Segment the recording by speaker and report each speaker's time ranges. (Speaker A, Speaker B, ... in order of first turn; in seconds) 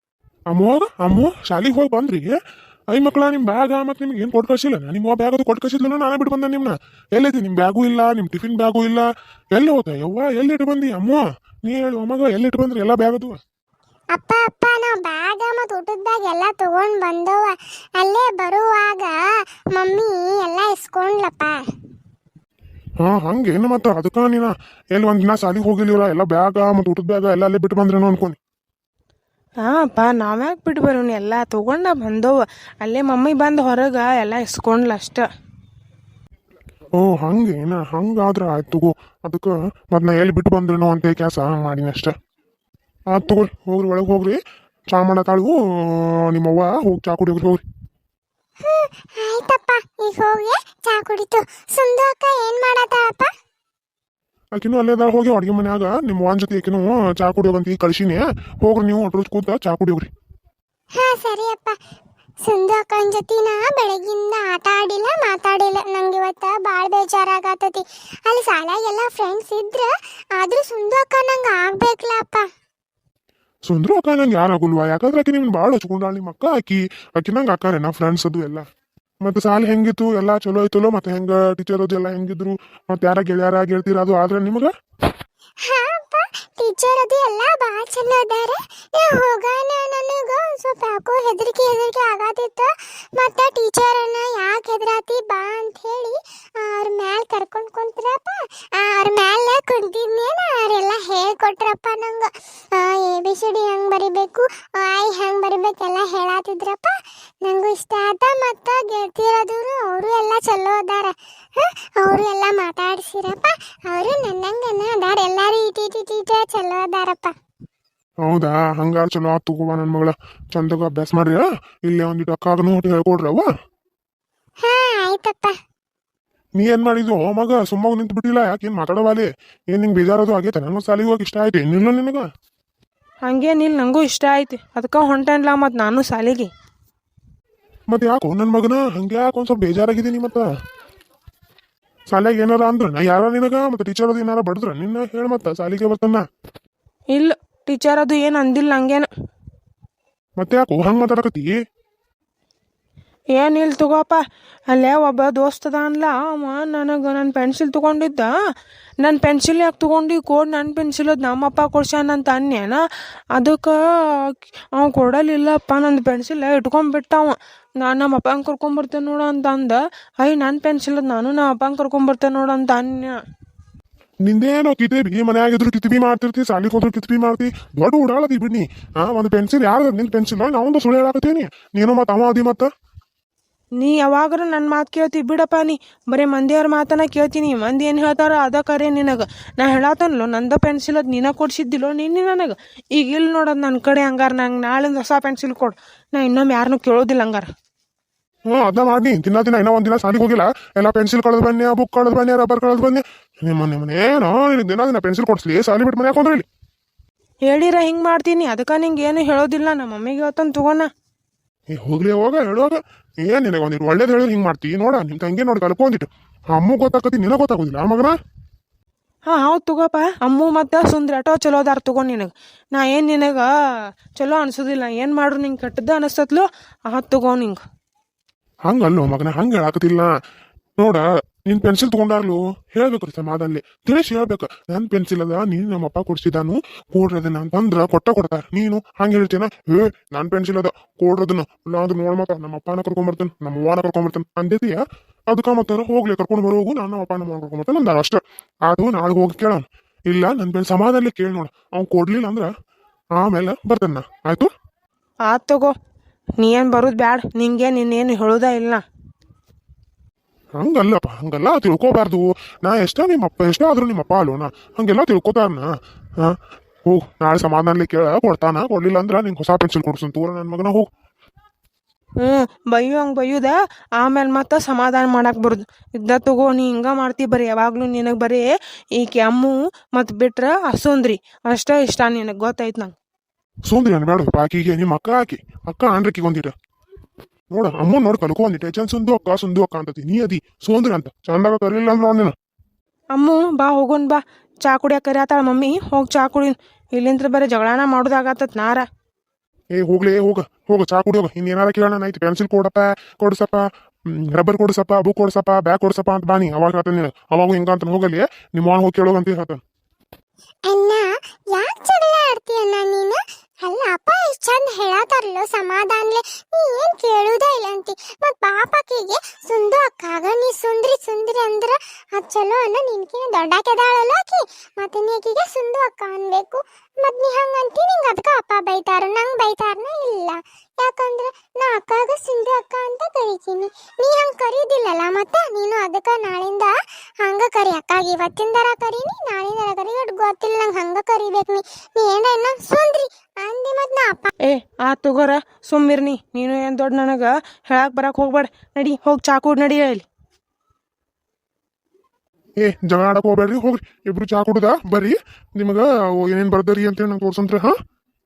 Speaker A: 0.5-2.3, 2.9-13.4, 23.0-28.4, 37.0-42.1, 43.1-44.4, 44.9-47.6, 54.5-60.1, 73.7-78.6, 79.2-84.7, 118.2-123.5, 126.6-132.2, 137.9-140.5, 142.1-146.2, 150.4-151.6, 174.2-182.7, 198.5-206.4, 211.7-218.1, 228.7-230.1, 230.8-252.5, 253.2-254.5, 260.6-266.4, 266.9-270.9, 283.6-286.5, 287.5-292.3, 299.7-309.6, 352.6-357.7
Speaker B: 14.2-19.1, 19.8-21.6, 48.6-53.3, 61.0-61.8, 62.5-72.5, 85.7-117.3, 124.6-125.5, 310.7-344.3
Speaker C: 29.6-35.3, 133.3-136.5, 147.1-149.1, 153.3-158.3, 159.0-162.8, 163.3-173.2, 183.8-197.5, 207.5-210.9, 219.3-223.5, 224.2-227.6, 255.3-255.7, 256.4-258.8, 272.2-282.9, 293.1-298.9, 344.5-350.0